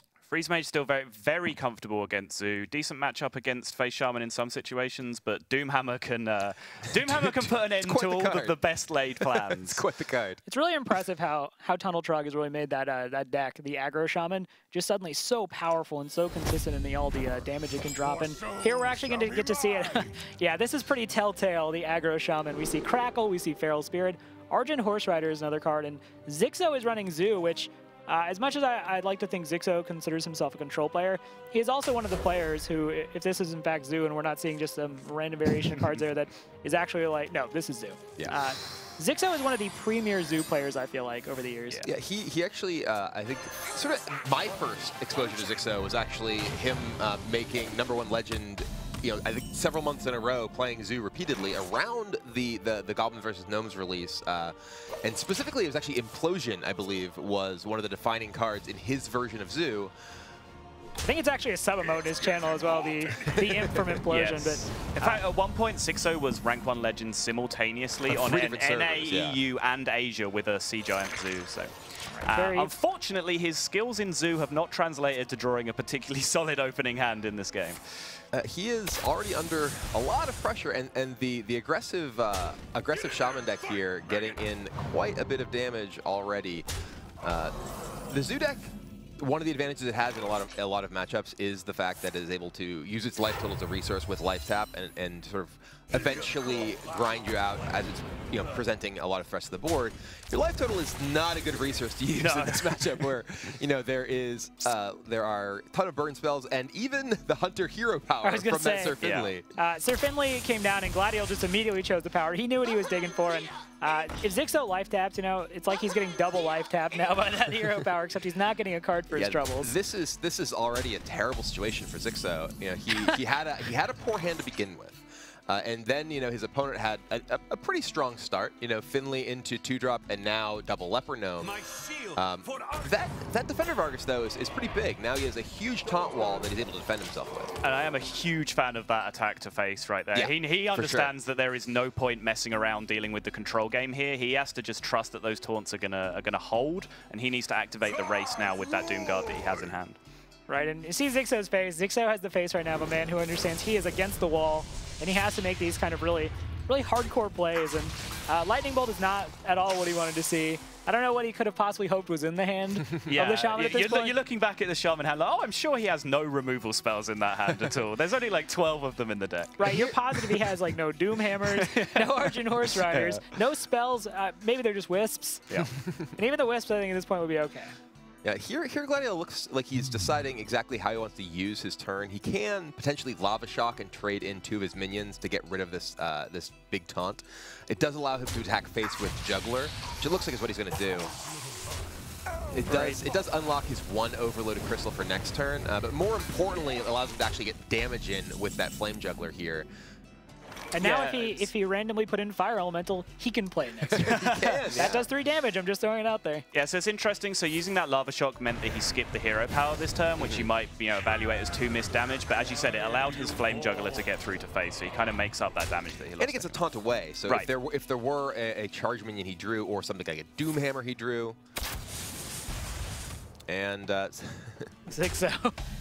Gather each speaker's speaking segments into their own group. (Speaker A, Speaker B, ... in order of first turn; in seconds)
Speaker A: 0.3-9.8, 64.1-77.8, 109.0-109.3, 137.6-150.0, 163.1-170.2, 171.4-173.2, 200.8-201.5, 204.0-204.9, 206.5-216.6
Speaker B: 6.9-8.6, 9.2-10.4, 41.8-59.9, 68.1-69.4, 78.3-86.7, 87.2-87.5, 88.1-109.5, 119.1-137.5, 140.1-141.1, 175.6-176.0, 178.2-191.1, 192.5-199.7, 203.9-205.1, 210.2-210.5, 216.2-221.4, 223.5-224.7
Speaker C: 10.5-41.9, 61.0-65.2, 72.3-72.7, 102.2-102.7, 108.2-109.0, 109.5-119.7, 150.5-164.1, 169.6-175.4, 176.2-177.7, 192.6-193.0, 200.7-206.4, 224.9-225.6